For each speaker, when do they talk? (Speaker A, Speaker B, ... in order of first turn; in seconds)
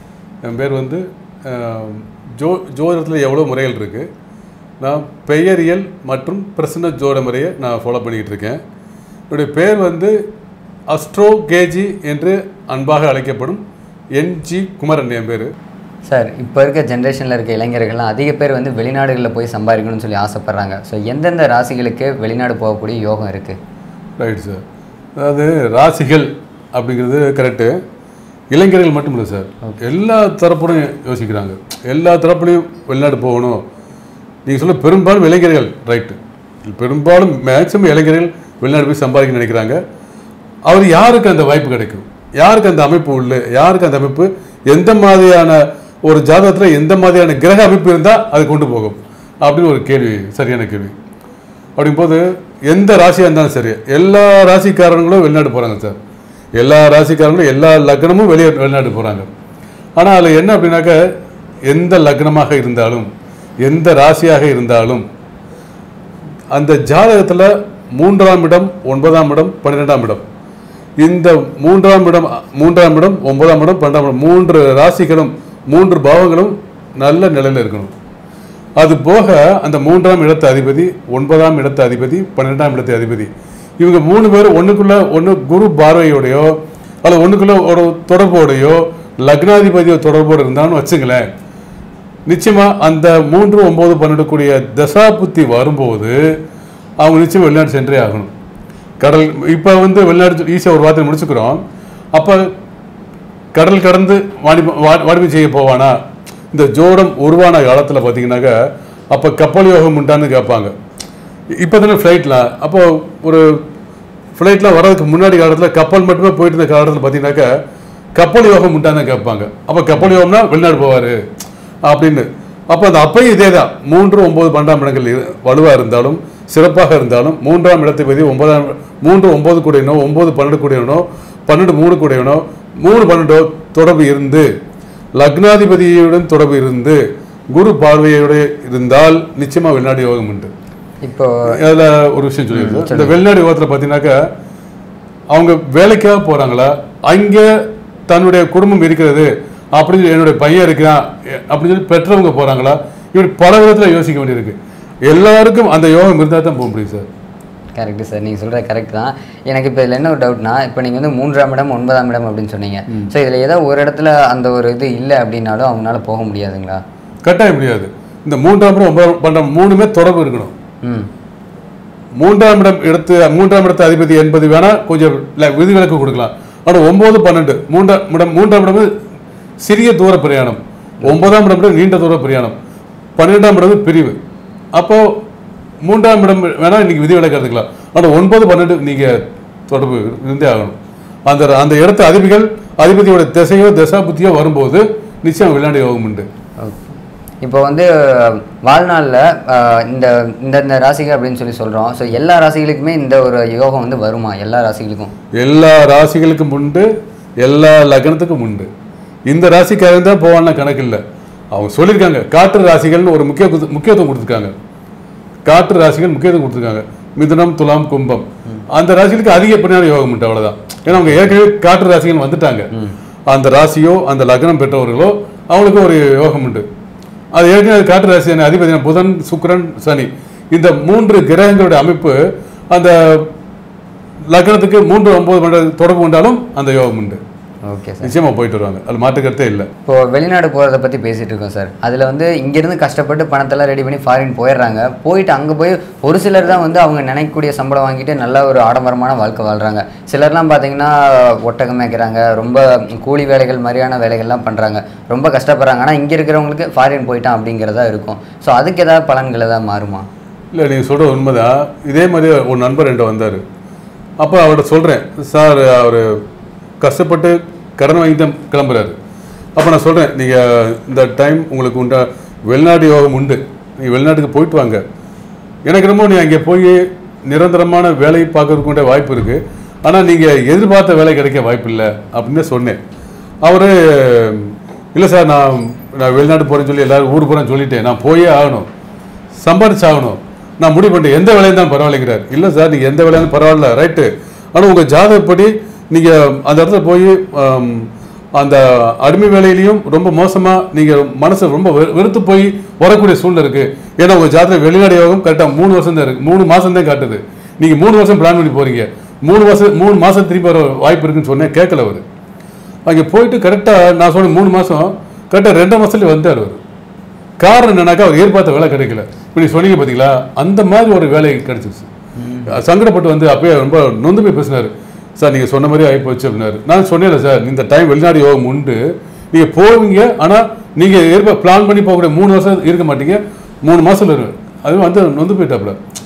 Speaker A: 0.4-4.0, 4.8-8.6, 9.3-10.2, 10.9-13.6, 14.1-15.5, 24.2-24.6, 25.2-27.8, 28.5-33.6, 34.5-39.8, 40.7-50.9, 51.8-56.0, 56.6-59.3, 60.0-61.0, 61.7-63.1, 63.6-65.0, 66.5-70.2, 71.0-77.9, 78.8-91.2, 92.3-96.2, 97.0-98.3, 99.0-101.6, 102.1-102.5, 103.5-106.0, 106.5-108.6, 109.1-110.7, 111.6-113.6, 114.4-117.5, 118.1-121.2, 121.8-134.5, 135.2-137.0, 137.5-140.5, 141.5-144.2, 145.3-147.5, 148.1-157.1, 167.2-170.5, 172.2-178.9, 179.6-182.5, 183.2-184.2, 184.7-185.1, 185.8-190.8, 191.3-196.2, 205.3-206.9, 207.4-208.7, 209.3-211.0, 211.5-214.5, 215.4-222.7, 223.3-226.6, 227.3-233.3, 234.3-237.2, 238.0-239.7, 260.5-263.4, 264.2-266.1, 266.8-268.9, 269.6-274.8, 275.6-282.8, 283.4-288.7, 289.4-312.0, 312.9-316.6, 317.4-321.9, 322.5-335.8
Speaker B: 16.1-23.6, 141.0-141.5, 142.5-143.2, 157.8-166.8, 196.6-205.1, 220.9-221.3, 237.7-238.1, 239.8-260.1, 322.2-322.6